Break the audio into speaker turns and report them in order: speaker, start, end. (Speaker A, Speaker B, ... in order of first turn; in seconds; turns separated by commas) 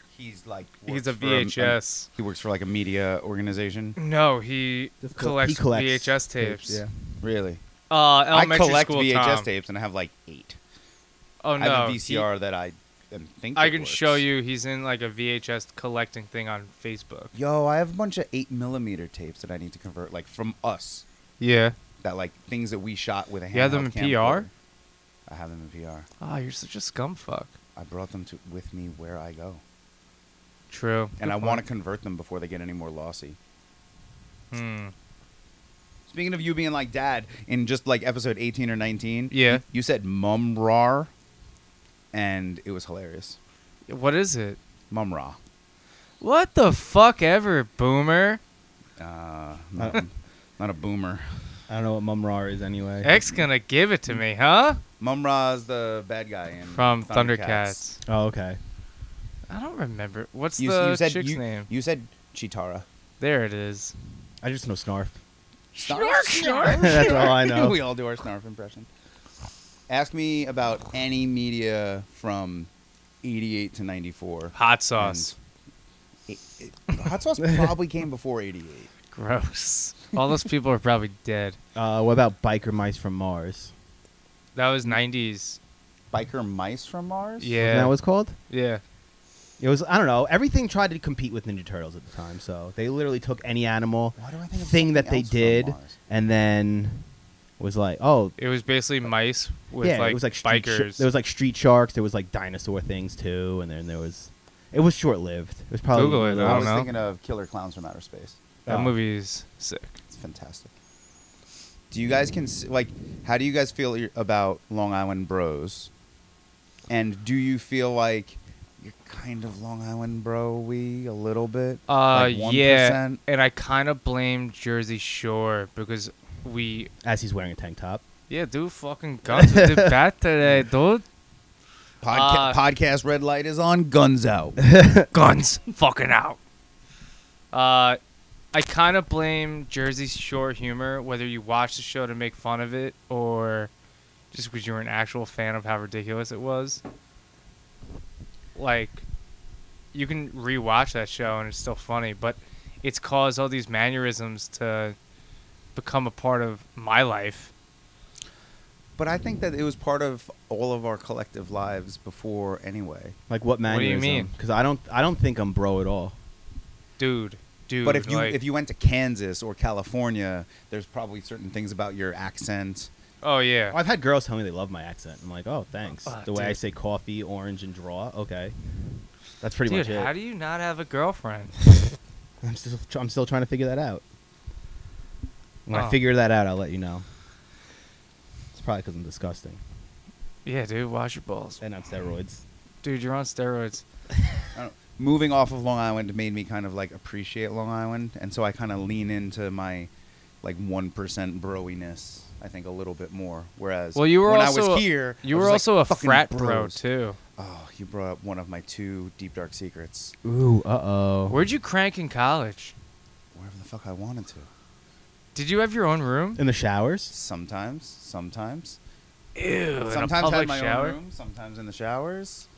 Speaker A: 0.1-4.0, Speaker B: 0.9-2.1, Speaker B: 4.0-6.8, Speaker C: 5.0-6.9, Speaker A: 7.2-7.6, Speaker B: 7.9-9.5, Speaker A: 8.3-10.6, Speaker B: 11.4-12.3, Speaker A: 11.6-14.2, Speaker B: 13.6-17.3, Speaker A: 17.3-21.1, Speaker B: 21.4-21.8, Speaker A: 22.0-24.5, Speaker B: 23.5-24.5, Speaker A: 25.3-26.1, Speaker B: 26.2-27.5, Speaker A: 27.8-29.6, Speaker B: 30.7-31.6, Speaker A: 31.2-33.4, Speaker B: 34.5-34.9, Speaker A: 36.1-41.1, Speaker B: 39.3-39.6, Speaker A: 42.1-43.4, Speaker B: 43.9-44.6, Speaker A: 44.9-45.4, Speaker B: 46.2-48.4, Speaker A: 49.0-51.4, Speaker C: 51.7-53.1, Speaker B: 53.0-54.8, Speaker A: 55.0-57.8, Speaker B: 56.7-58.0, Speaker C: 58.1-58.6, Speaker B: 59.5-61.7, Speaker A: 60.6-62.9, Speaker B: 63.2-63.9, Speaker C: 64.4-65.2, Speaker A: 65.8-68.9, Speaker B: 65.8-67.5, Speaker C: 66.7-67.8, Speaker A: 69.9-72.7, Speaker A: 73.2-75.3, Speaker B: 74.5-75.3, Speaker A: 76.3-78.9, Speaker B: 79.1-81.6, Speaker C: 81.8-83.7, Speaker B: 84.5-85.6, Speaker A: 86.1-87.5, Speaker B: 87.4-88.0, Speaker C: 87.6-88.4, Speaker B: 88.5-88.8, Speaker C: 89.6-97.0, Speaker A: 94.2-96.0, Speaker C: 97.6-98.4, Speaker B: 98.4-101.1, Speaker C: 99.8-106.7, Speaker B: 105.9-106.9, Speaker A: 106.4-108.4, Speaker C: 108.7-109.0, Speaker B: 108.7-110.0, Speaker A: 110.1-110.7, Speaker A: 111.9-115.9, Speaker A: 116.9-123.2, Speaker B: 121.9-126.9, Speaker C: 127.0-128.0, Speaker B: 128.3-131.0, Speaker C: 129.3-129.9, Speaker A: 132.0-134.6, Speaker B: 132.1-132.6, Speaker C: 134.6-135.1, Speaker B: 135.1-136.4, Speaker B: 137.5-138.0, Speaker B: 138.5-143.7, Speaker B: 144.3-146.8, Speaker B: 148.6-149.0, Speaker B: 149.9-155.0, Speaker B: 155.8-157.5, Speaker A: 159.0-163.2, Speaker C: 163.3-166.2, Speaker B: 163.7-164.3, Speaker B: 167.0-168.4, Speaker A: 167.8-172.9, Speaker B: 173.2-173.8, Speaker C: 173.7-178.6, Speaker B: 176.1-176.6, Speaker C: 179.4-180.1, Speaker B: 179.7-181.6, Speaker C: 182.4-184.0, Speaker C: 185.7-187.1, Speaker B: 185.7-186.0, Speaker C: 188.5-189.6, Speaker B: 190.4-191.6, Speaker C: 191.6-192.4, Speaker B: 192.8-193.8, Speaker A: 194.6-199.9, Speaker A: 200.4-206.8, Speaker B: 203.9-207.2, Speaker A: 207.4-210.1, Speaker C: 210.2-211.4, Speaker B: 211.3-212.7, Speaker A: 213.3-214.5, Speaker B: 215.3-216.4, Speaker C: 216.4-217.1, Speaker A: 217.1-218.8, Speaker B: 219.4-221.0, Speaker A: 219.9-222.5